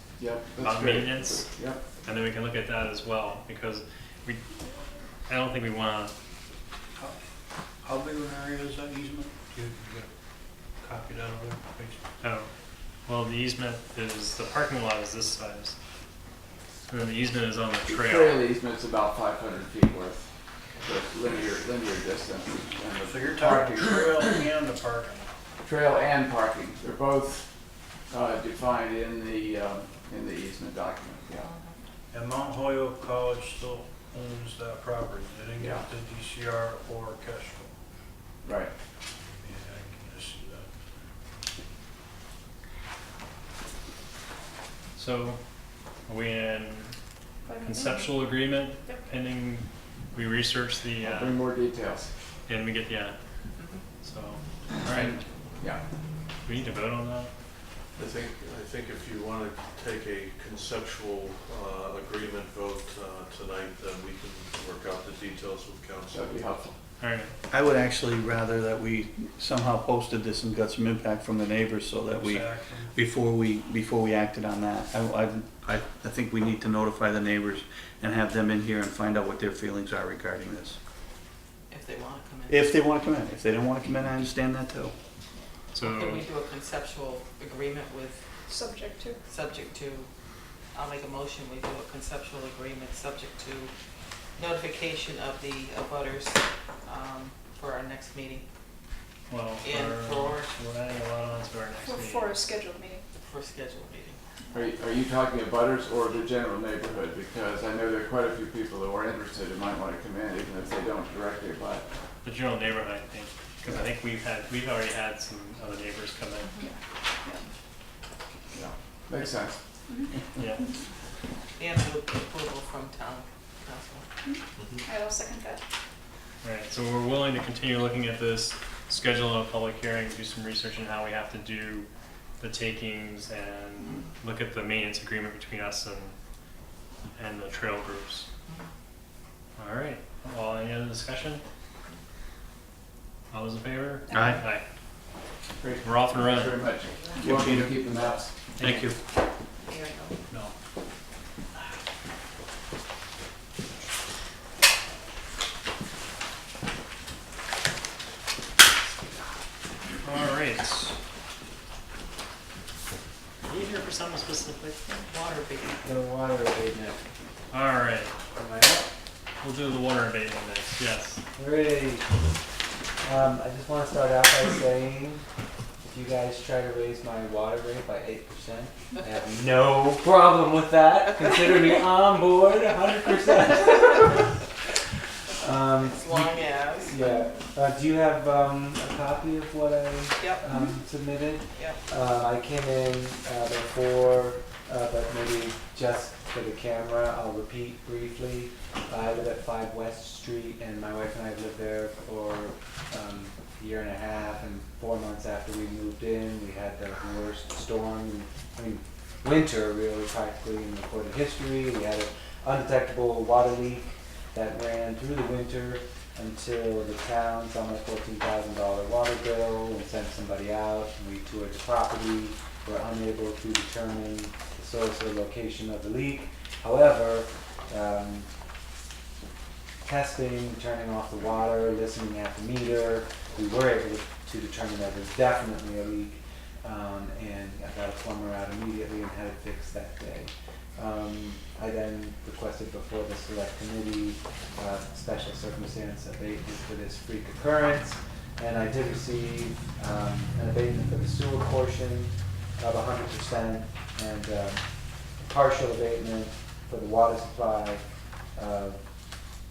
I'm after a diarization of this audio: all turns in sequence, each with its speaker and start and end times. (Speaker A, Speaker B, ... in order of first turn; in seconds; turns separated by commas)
Speaker A: 0.2-1.8, Speaker B: 0.6-1.5, Speaker B: 2.0-4.5, Speaker B: 5.3-6.1, Speaker C: 7.8-10.1, Speaker C: 10.8-12.0, Speaker B: 12.2-12.5, Speaker B: 13.1-15.8, Speaker B: 16.9-18.5, Speaker A: 17.9-20.3, Speaker A: 20.8-24.4, Speaker C: 23.0-25.2, Speaker A: 25.6-27.5, Speaker A: 28.1-31.5, Speaker D: 31.4-31.8, Speaker C: 32.1-37.7, Speaker A: 35.6-35.9, Speaker A: 38.4-38.7, Speaker C: 39.3-40.7, Speaker B: 45.0-45.4, Speaker B: 46.1-46.9, Speaker E: 47.5-47.9, Speaker B: 47.6-51.4, Speaker A: 51.0-52.1, Speaker B: 52.5-53.2, Speaker D: 53.6-53.8, Speaker B: 54.0-55.2, Speaker A: 54.9-55.8, Speaker B: 56.5-57.3, Speaker F: 58.0-66.6, Speaker A: 66.1-66.7, Speaker B: 67.0-67.4, Speaker G: 67.5-80.8, Speaker C: 72.1-72.9, Speaker D: 81.7-82.7, Speaker G: 82.5-84.9, Speaker B: 85.7-86.3, Speaker D: 85.8-88.2, Speaker E: 88.5-89.2, Speaker D: 89.3-90.1, Speaker D: 90.7-93.7, Speaker D: 94.4-98.4, Speaker B: 99.3-102.4, Speaker D: 99.6-100.5, Speaker E: 101.9-103.0, Speaker D: 103.2-104.2, Speaker A: 104.5-111.8, Speaker B: 112.2-116.5, Speaker A: 118.5-119.6, Speaker B: 120.4-120.7, Speaker D: 121.6-124.1, Speaker E: 124.3-125.6, Speaker F: 124.6-124.9, Speaker B: 126.4-131.9, Speaker B: 132.4-136.2, Speaker B: 137.2-138.3, Speaker B: 139.6-141.4, Speaker B: 143.3-144.6, Speaker G: 144.1-144.4, Speaker A: 145.6-148.3, Speaker B: 145.8-146.7, Speaker G: 147.2-148.9, Speaker B: 148.6-148.9, Speaker D: 149.7-150.1, Speaker H: 159.0-159.3, Speaker B: 160.0-160.9, Speaker B: 163.5-164.8, Speaker D: 164.9-165.8, Speaker H: 165.8-167.0, Speaker B: 167.5-168.1, Speaker H: 168.3-168.9, Speaker B: 169.4-171.2, Speaker H: 171.4-172.1, Speaker H: 173.0-175.2, Speaker H: 175.8-184.5, Speaker H: 185.4-228.3, Speaker D: 185.8-186.9, Speaker D: 190.2-190.4, Speaker H: 229.8-254.6, Speaker H: 255.2-257.8, Speaker H: 258.4-258.8